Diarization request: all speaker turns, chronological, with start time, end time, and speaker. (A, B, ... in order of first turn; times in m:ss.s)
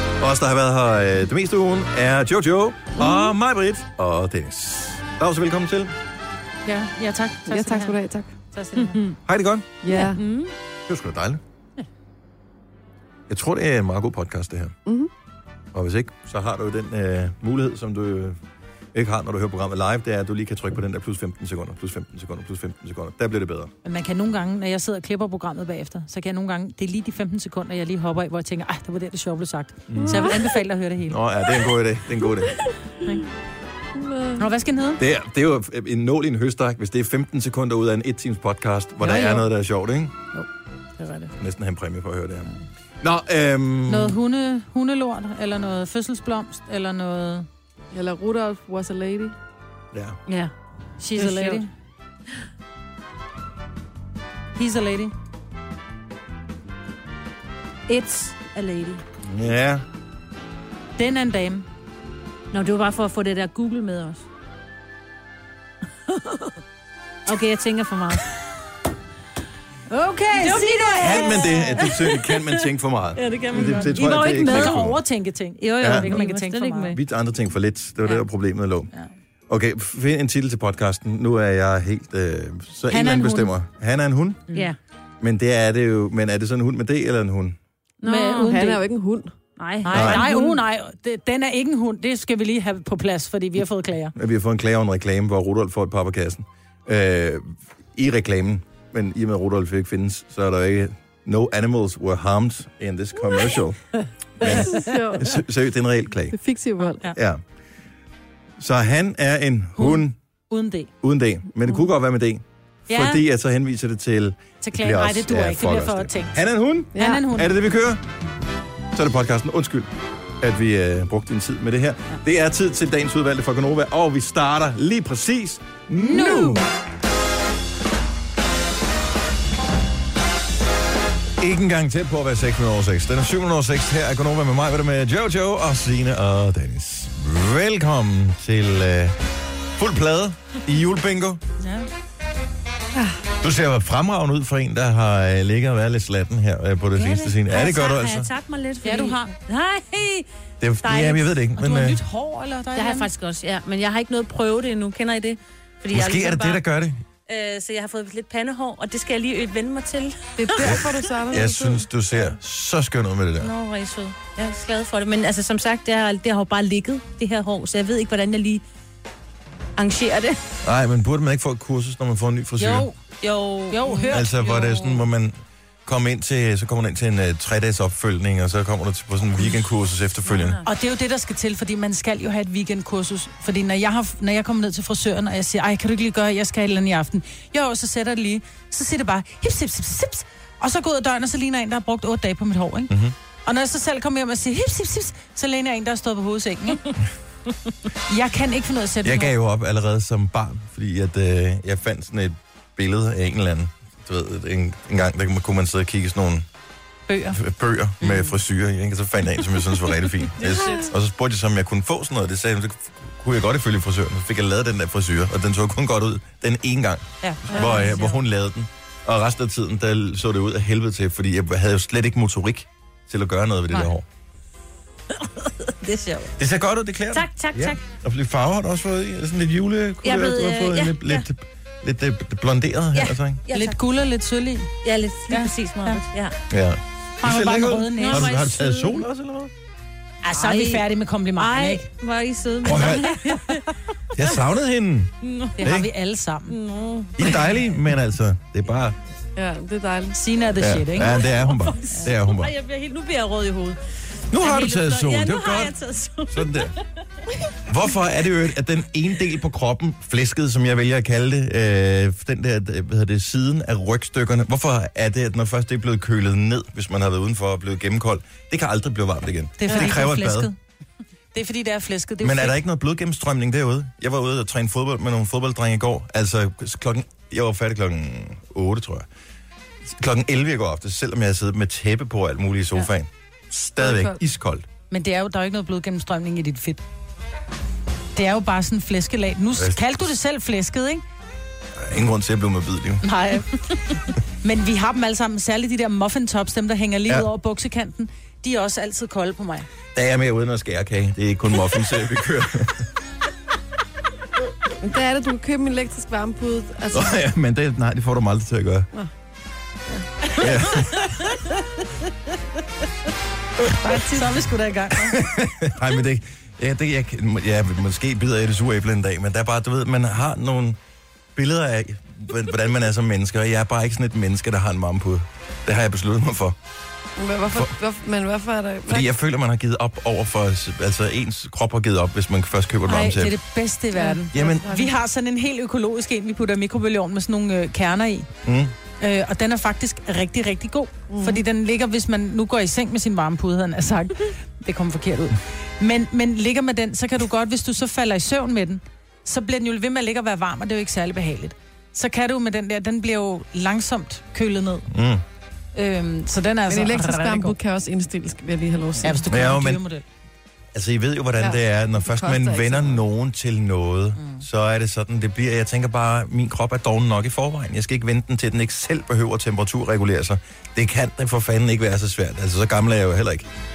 0:00.2-0:05.9 A
0:06.6-0:08.0 B
0:07.5-0:08.3 C
0:08.5-0:09.0 B
0:08.8-0:09.0 D
0:09.2-0:09.7 A
0:09.8-0:10.2 C
0:10.0-0:10.5 D
0:10.9-0:11.4 A
0:13.3-0:14.8 A
0:14.9-0:15.1 C
0:15.7-0:18.4 A
0:18.9-0:23.7 A
0:23.8-0:31.2 B
0:29.9-0:30.4 A
0:30.0-0:30.3 C
0:31.1-0:32.6 A
0:34.0-0:34.5 C
0:34.4-0:35.0 B
0:35.0-0:40.2 A
0:39.0-0:39.5 B
0:41.0-0:41.3 B
0:41.4-0:42.5 A
0:43.0-0:44.2 A
0:43.9-0:47.5 B
0:47.9-0:49.4 C
0:49.9-0:50.2 A
0:50.3-0:50.5 D
0:51.0-0:51.7 B
0:51.2-0:51.6 D
0:54.6-0:55.1 B
0:57.9-0:59.0 D
0:59.2-0:59.8 A
1:01.0-1:01.6 B
1:02.5-1:04.2 D
1:07.3-1:08.2 D
1:09.9-1:11.9 B
1:10.4-1:12.6 D
1:11.0-1:15.0 A
1:13.2-1:14.8 D
1:13.9-1:17.0 B
1:15.6-1:17.0 D
1:15.8-1:16.1 A
1:16.9-1:18.9 A
1:19.5-1:24.5 A
1:22.9-1:23.5 B
1:25.2-1:27.6 A
1:28.0-1:28.7 D
1:28.0-1:28.8 B
1:28.4-1:29.3 C
1:29.6-1:30.6 D
1:29.8-1:34.1 B
1:29.9-1:30.2 A
1:34.2-1:43.8 A
1:44.4-1:46.4 A
1:44.4-1:44.8 B
1:44.4-1:45.4 C
1:46.3-1:47.1 C
1:47.1-1:47.4 A
1:48.6-1:50.2 A
1:49.8-1:50.9 B
1:51.0-1:58.0 A
1:52.9-1:53.2 B
1:54.6-1:56.4 B
1:57.0-1:57.5 B
1:57.0-1:57.2 C
1:58.9-2:06.7 A
2:06.0-2:06.6 B
2:11.4-2:19.2 A
2:19.8-2:21.4 A
2:21.6-2:21.9 B
2:22.9-2:23.2 C
2:23.4-2:28.3 A
2:27.0-2:30.3 D
2:28.8-2:29.3 B
2:30.6-2:32.0 A
2:30.8-2:31.3 D
2:31.6-2:33.1 B
2:32.8-2:36.6 D
2:35.9-2:37.0 A
2:37.3-2:41.0 D
2:40.4-2:41.8 C
2:40.6-2:43.5 A
2:43.4-2:48.6 D
2:49.8-2:50.4 D
2:50.6-2:52.9 A
2:52.6-2:52.9 B
2:53.2-2:54.9 D
2:53.7-2:54.8 B
2:54.1-3:00.6 A
3:00.3-3:00.6 D
3:00.7-3:16.8 B
3:12.9-3:13.2 A
3:18.1-3:19.3 B
3:19.0-3:26.5 A
3:27.1-3:27.4 B
3:27.3-3:44.0 A
3:30.4-3:30.9 C
3:37.2-3:38.1 D
3:37.5-3:37.8 C
3:45.2-3:46.3 D
3:46.4-3:53.4 A
3:47.1-3:47.8 D
3:50.0-3:51.2 D
3:53.0-3:53.8 D
3:53.5-3:54.7 B
3:54.8-3:56.4 D
3:55.3-3:56.0 B
3:56.5-3:59.5 A
3:57.2-3:58.4 B
3:58.0-3:59.0 D
4:00.2-4:01.9 B
4:00.3-4:00.8 D
4:01.4-4:03.7 D
4:02.6-4:03.2 A
4:02.7-4:03.7 B
4:04.1-4:05.9 A
4:05.2-4:05.6 D
4:05.6-4:06.6 B
4:06.5-4:07.4 D
4:07.2-4:09.0 A
4:09.4-4:10.2 C
4:10.2-4:11.2 B
4:10.6-4:12.5 A
4:11.0-4:13.8 D
4:14.3-4:15.8 A
4:14.3-4:16.8 D
4:16.3-4:16.8 A
4:17.7-4:30.5 A
4:29.6-4:30.6 B
4:31.3-4:32.6 B
4:32.2-4:39.1 A
4:39.9-4:44.6 A
4:43.8-4:44.2 C
4:44.9-4:46.8 B
4:48.2-4:51.0 B
4:49.6-4:50.1 A
4:51.8-4:53.0 A
4:53.0-4:59.7 B
4:59.9-5:02.9 A
5:04.8-5:07.2 C
5:06.9-5:08.9 A
5:10.2-5:12.1 B
5:10.4-5:11.2 A
5:13.8-5:15.2 B
5:13.9-5:14.2 C
5:14.9-5:20.8 A
5:21.4-5:26.6 A
5:27.2-5:29.1 C
5:28.9-5:33.4 A
5:32.8-5:38.3 B
5:34.0-5:34.9 C
5:34.3-5:34.7 A
5:38.4-5:38.7 A
5:39.0-5:54.9 B
5:41.1-5:41.4 C
5:54.9-5:55.2 A
5:55.8-5:57.6 B
5:56.7-5:59.2 C
5:59.0-6:00.0 B
5:59.3-5:59.8 A
6:00.7-6:13.5 A
6:01.4-6:03.0 C